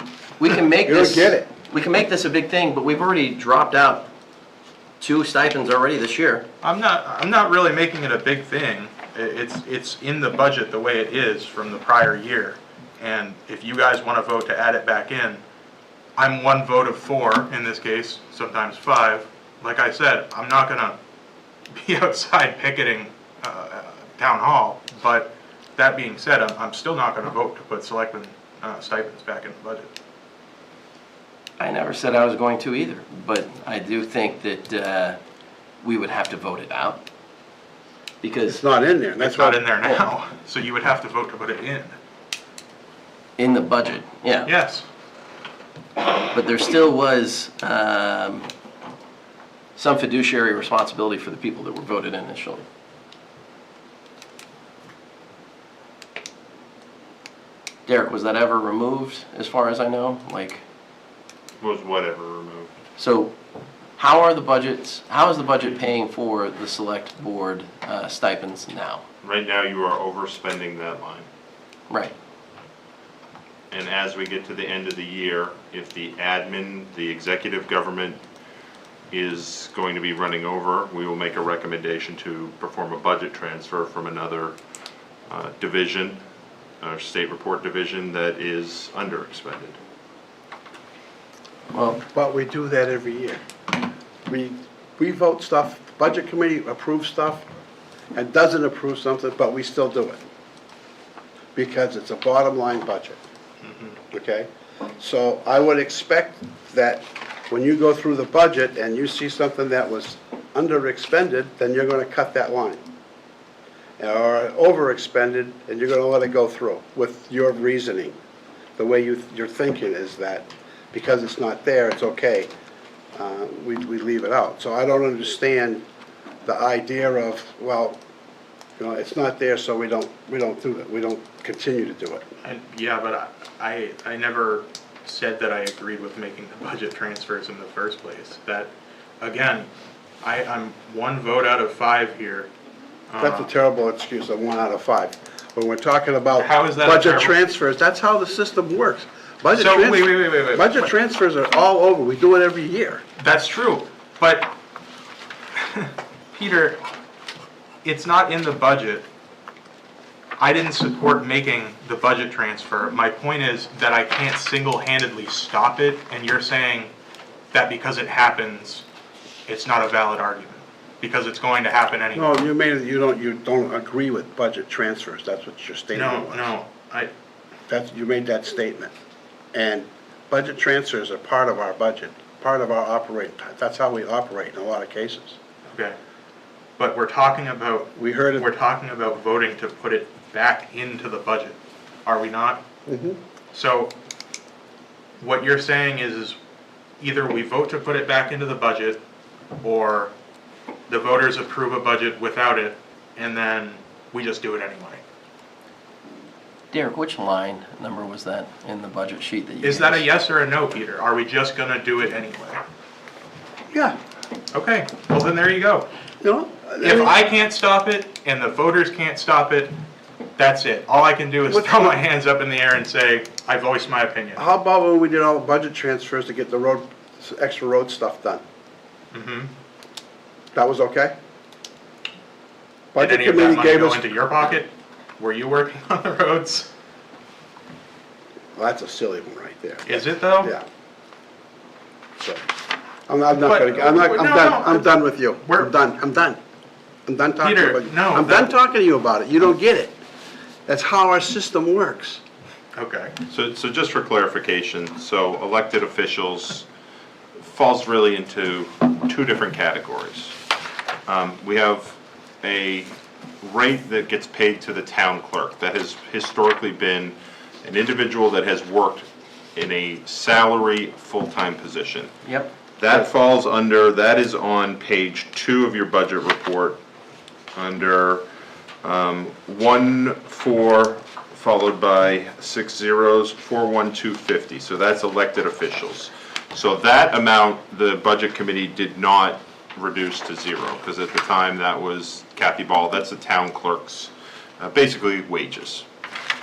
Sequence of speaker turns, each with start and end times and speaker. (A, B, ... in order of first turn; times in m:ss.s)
0:00.4-0:04.1 A
0:00.8-0:01.5 B
0:05.0-0:06.4 A
0:06.6-0:15.4 C
0:16.2-0:21.0 C
0:21.7-0:29.9 C
0:31.6-0:35.2 A
0:35.8-0:37.0 A
0:38.2-0:38.6 A
0:38.5-0:39.6 B
0:39.2-0:41.9 C
0:43.4-0:44.5 A
0:44.4-0:44.8 C
0:46.3-0:48.5 A
0:49.8-0:52.6 A
0:57.8-1:00.6 A
1:01.6-1:02.7 D
1:03.0-1:03.3 A
1:04.0-1:09.0 A
1:09.2-1:11.3 D
1:13.7-1:18.2 D
1:19.1-1:24.6 D
1:25.3-1:26.2 D
1:26.8-1:29.8 D
1:31.7-1:32.0 A
1:32.1-1:33.4 B
1:34.3-1:37.4 B
1:38.1-1:40.2 B
1:41.5-1:43.2 B
1:43.6-1:43.9 C
1:44.1-1:52.8 B
1:54.0-1:58.2 B
1:58.8-2:02.5 B
2:03.1-2:05.8 B
2:06.4-2:08.0 B
2:08.8-2:12.3 B
2:12.4-2:19.7 C
2:20.2-2:22.5 C
2:23.1-2:23.5 C
2:23.2-2:33.0 B
2:26.4-2:27.4 C
2:29.5-2:30.9 C
2:33.2-2:34.5 C
2:35.6-2:36.8 C
2:37.8-2:39.1 C
2:40.4-2:46.9 C
2:47.5-2:48.8 C
2:49.5-2:52.4 C
2:52.1-2:56.5 B
2:55.9-2:57.1 C
2:57.7-2:58.9 B
2:59.5-3:05.4 B
3:05.7-3:06.0 C
3:06.8-3:12.6 C
3:08.0-3:08.5 B
3:12.9-3:13.2 B
3:13.5-3:13.9 C
3:15.2-3:16.4 C
3:17.0-3:19.0 C
3:19.6-3:20.1 C
3:20.9-3:25.0 C
3:26.7-3:30.0 A
3:29.6-3:32.6 C
3:33.7-3:34.0 B
3:34.5-3:35.9 C
3:36.2-3:37.2 B
3:36.8-3:39.8 C
3:40.4-3:44.4 C
3:41.5-3:42.0 B
3:44.4-3:48.4 B
3:49.1-3:49.5 C
3:50.5-3:51.1 B
3:52.9-3:54.1 B
3:53.0-3:56.7 C
3:58.6-4:00.6 B
3:59.8-4:00.5 C
4:03.1-4:06.4 B
4:03.4-4:05.7 C
4:07.0-4:10.0 B
4:07.4-4:08.5 C
4:10.7-4:12.2 B
4:12.7-4:13.2 C
4:13.3-4:16.6 D
4:17.4-4:20.4 D
4:21.0-4:22.9 D
4:23.4-4:32.1 D
4:32.2-4:32.5 A
4:32.8-4:36.8 D
4:37.5-4:38.2 D
4:38.8-4:55.8 D